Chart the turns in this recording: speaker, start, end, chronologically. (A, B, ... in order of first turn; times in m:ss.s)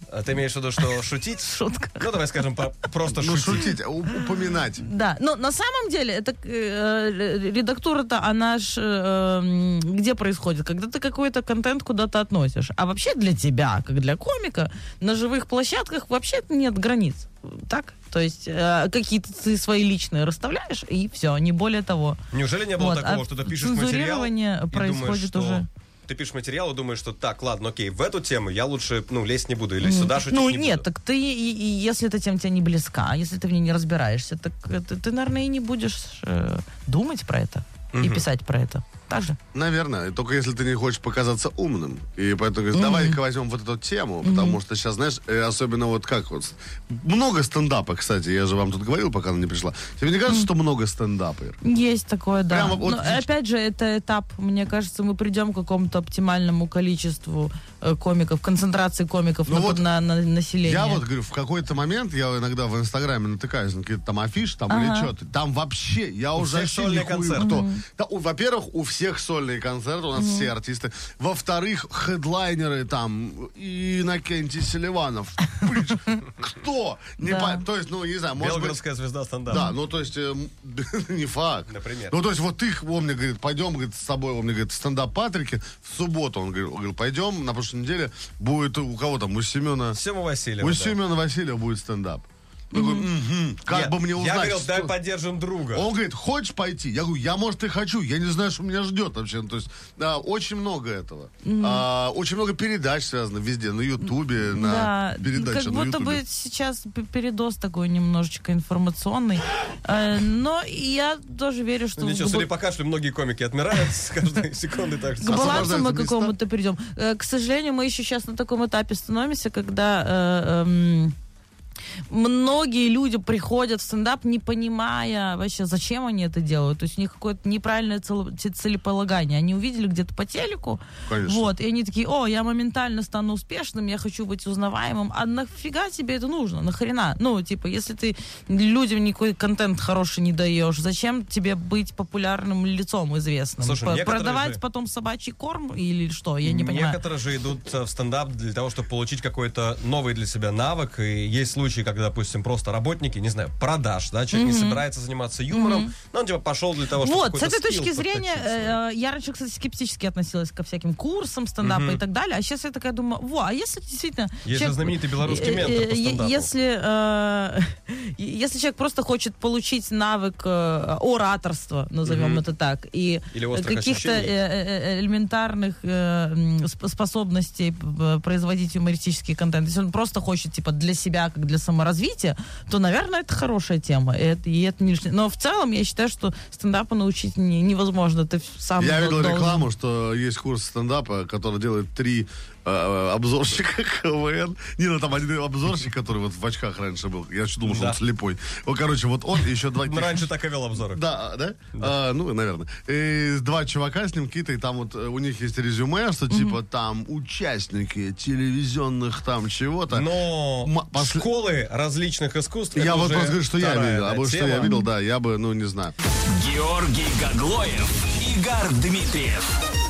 0:00.1-0:03.7 A
0:00.8-0:02.2 B
0:03.1-0:04.8 C
0:04.1-0:22.2 B
0:22.3-0:30.8 A
0:22.8-0:25.7 B
0:29.8-0:39.4 B
0:37.9-0:38.2 A
0:39.5-0:51.6 C
0:42.7-0:43.2 B
0:44.2-0:44.6 B
0:51.6-1:01.0 B
0:52.5-0:53.3 C
0:59.5-0:59.8 C
1:00.6-1:18.8 C
1:04.7-1:05.1 B
1:06.4-1:07.6 A
1:07.4-1:07.8 B
1:10.2-1:10.5 B
1:17.2-1:17.6 B
1:18.4-1:19.6 A
1:19.5-1:30.0 C
1:21.7-1:22.2 A
1:29.9-1:31.0 A
1:30.6-1:34.9 C
1:32.7-1:33.1 B
1:33.7-1:35.9 A
1:35.7-1:46.2 C
1:41.4-1:41.8 B
1:44.5-1:52.5 B
1:52.0-1:55.7 A
1:55.2-2:01.2 B
1:55.3-1:56.3 C
2:02.1-2:27.0 B
2:11.1-2:11.5 C
2:23.6-2:24.6 A
2:26.4-2:38.8 A
2:34.3-2:34.8 B
2:35.5-2:35.9 B
2:37.0-3:09.7 B
2:41.6-2:42.0 A
2:44.4-2:46.5 A
2:52.0-2:52.4 A
2:53.3-2:54.3 A
3:08.8-3:20.3 C
3:17.6-3:18.0 A
3:19.8-3:21.0 A
3:20.9-3:30.1 C
3:26.3-3:26.6 B
3:29.9-3:34.7 A
3:30.6-3:31.2 C
3:32.7-3:35.9 C
3:34.6-3:34.9 B
3:36.3-3:39.6 D